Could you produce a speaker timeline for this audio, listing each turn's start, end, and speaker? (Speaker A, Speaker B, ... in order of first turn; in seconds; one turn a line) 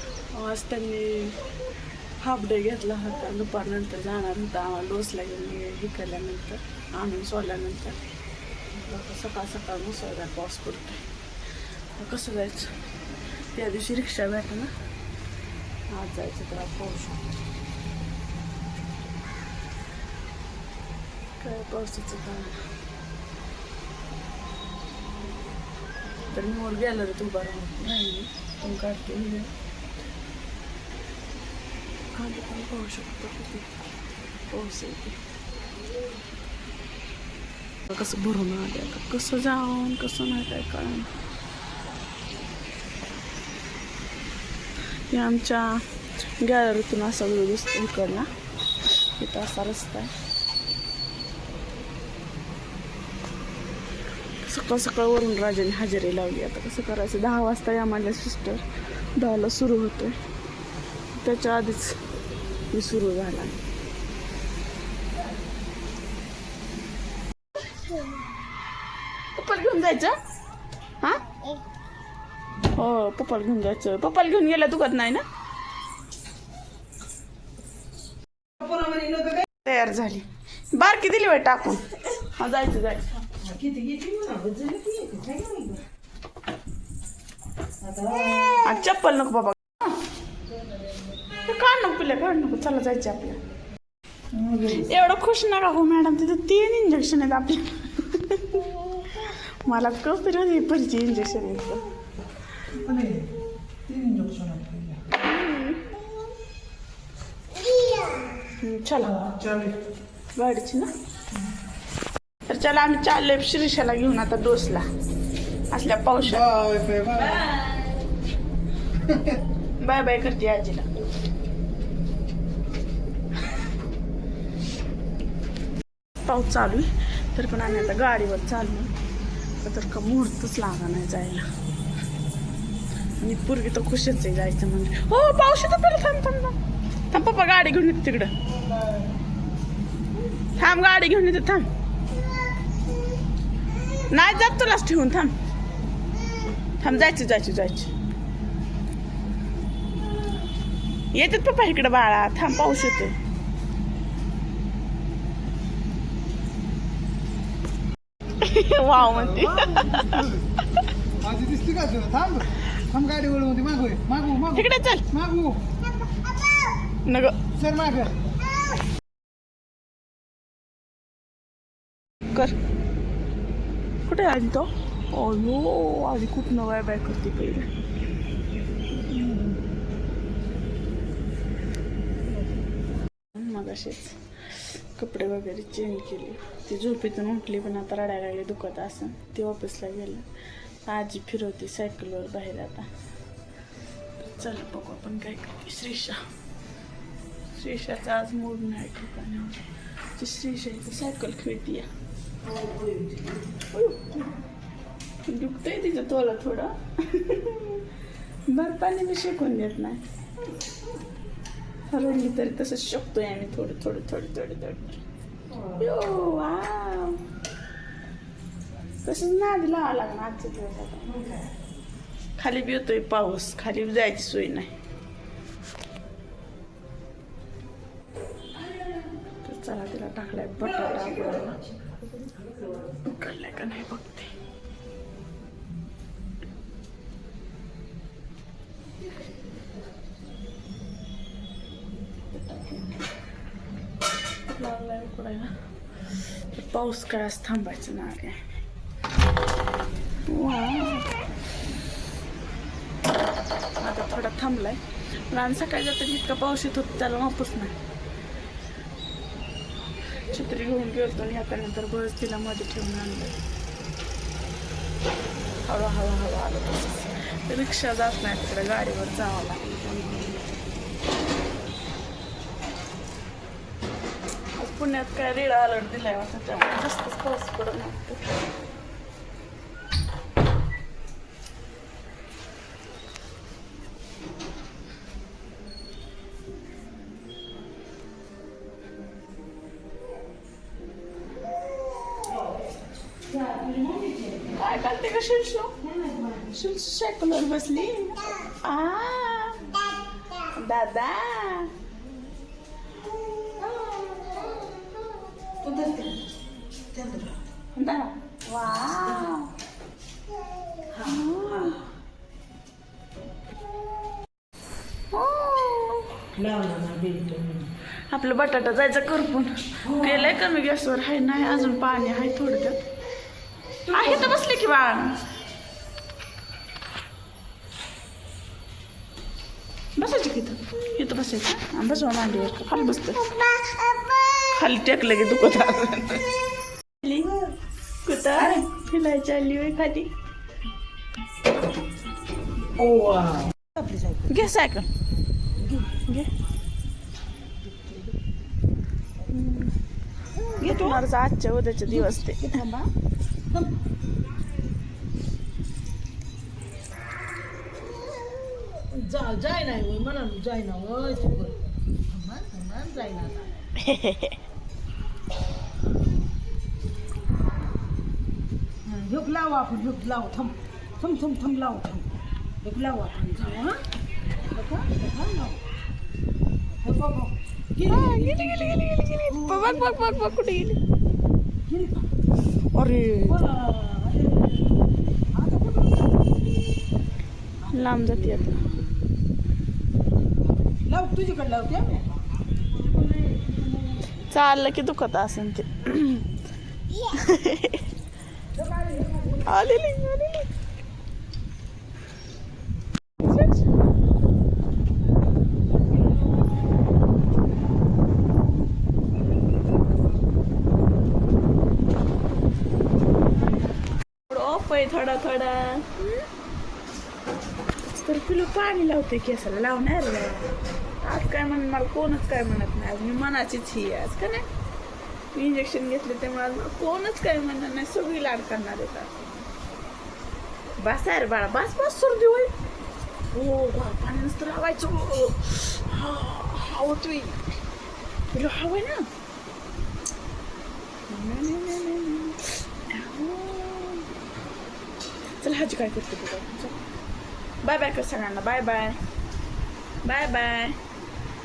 Speaker A: 0.3-1.4
Speaker A: 2.2-8.0
Speaker A: 8.8-11.0
Speaker A: 12.0-12.7
Speaker A: 13.5-14.7
Speaker A: 15.9-17.3
Speaker A: 21.4-22.6
Speaker A: 26.3-29.5
Speaker A: 32.1-33.7
Speaker A: 34.5-35.2
Speaker A: 37.9-41.1
Speaker A: 45.1-45.8
Speaker A: 46.4-48.3
Speaker A: 49.2-50.1
Speaker A: 54.4-58.6
Speaker A: 59.2-60.2
Speaker A: 61.2-62.0
Speaker A: 62.7-63.6
Speaker A: 69.3-70.2
Speaker A: 72.7-75.2
Speaker B: 78.6-79.4
Speaker A: 79.6-83.1
Speaker B: 83.4-85.8
Speaker B: 87.8-88.6
Speaker A: 88.6-90.0
Speaker A: 91.3-93.4
Speaker C: 94.3-94.9
Speaker A: 94.7-101.8
Speaker C: 102.7-103.3
Speaker C: 103.8-105.0
Speaker A: 105.1-105.8
Speaker A: 108.6-109.5
Speaker C: 109.3-109.8
Speaker A: 110.3-110.9
Speaker A: 112.5-114.9
Speaker A: 115.7-116.5
Speaker C: 116.3-117.5
Speaker A: 119.8-120.9
Speaker A: 126.2-128.9
Speaker A: 129.6-131.4
Speaker A: 133.2-136.6
Speaker A: 137.1-138.3
Speaker A: 140.6-141.7
Speaker A: 144.1-145.3
Speaker A: 146.8-147.9
Speaker A: 151.1-153.1
Speaker A: 158.4-160.3
Speaker C: 158.9-160.4
Speaker C: 161.2-165.6
Speaker A: 164.5-165.0
Speaker A: 167.1-167.4
Speaker C: 167.5-168.2
Speaker A: 174.1-177.7
Speaker A: 183.3-190.2
Speaker A: 190.8-192.9
Speaker A: 194.2-196.2
Speaker A: 197.5-199.6
Speaker A: 200.2-201.9
Speaker B: 202.4-203.4
Speaker A: 203.7-204.3
Speaker A: 205.2-207.8
Speaker A: 208.5-210.0
Speaker A: 211.9-215.0
Speaker A: 215.7-217.2
Speaker A: 219.0-221.3
Speaker A: 222.4-224.7
Speaker A: 229.4-231.6
Speaker B: 231.0-231.6
Speaker B: 232.4-232.7
Speaker A: 232.9-234.3
Speaker A: 242.3-243.0
Speaker A: 244.5-245.5
Speaker A: 246.5-248.4
Speaker A: 250.3-251.1
Speaker A: 253.8-254.8
Speaker A: 255.3-257.8
Speaker A: 260.3-263.4
Speaker A: 265.6-270.4
Speaker A: 274.6-278.2
Speaker B: 293.3-294.5
Speaker A: 294.5-295.7
Speaker B: 295.8-296.5
Speaker A: 296.5-299.6
Speaker A: 300.5-301.7
Speaker B: 303.6-304.5
Speaker B: 305.6-306.3
Speaker B: 306.9-307.4
Speaker A: 307.7-309.5
Speaker B: 310.9-311.2
Speaker A: 311.0-311.8
Speaker A: 315.1-316.2
Speaker B: 316.3-317.7
Speaker A: 318.1-322.8
Speaker B: 319.8-320.2
Speaker A: 323.9-325.2
Speaker A: 330.0-333.4
Speaker A: 334.4-336.3
Speaker B: 337.2-337.5
Speaker A: 338.0-340.1
Speaker B: 342.8-344.3
Speaker A: 344.3-344.9
Speaker B: 345.6-345.9
Speaker A: 346.0-346.3
Speaker B: 347.6-348.1
Speaker A: 349.3-349.7
Speaker B: 350.4-351.0
Speaker A: 350.6-352.6
Speaker B: 351.9-352.9
Speaker B: 358.8-363.5
Speaker A: 363.8-364.4
Speaker B: 368.8-372.1
Speaker B: 372.6-373.8
Speaker B: 374.5-375.6
Speaker B: 376.8-380.5
Speaker A: 377.8-380.8
Speaker B: 381.7-382.1
Speaker A: 382.7-383.5
Speaker B: 383.3-384.7
Speaker B: 385.3-386.7
Speaker B: 387.6-388.8
Speaker A: 387.7-388.7
Speaker B: 390.8-392.1
Speaker B: 392.8-394.1
Speaker A: 394.1-396.3
Speaker A: 397.0-397.9
Speaker B: 398.6-399.4
Speaker A: 399.4-400.5
Speaker A: 403.2-403.7
Speaker A: 414.3-416.2
Speaker A: 417.8-424.5
Speaker A: 425.3-429.2
Speaker A: 430.8-432.5
Speaker A: 433.3-437.4
Speaker A: 438.3-439.1
Speaker A: 441.1-444.1
Speaker A: 445.4-446.8
Speaker A: 447.6-449.0
Speaker A: 450.0-450.8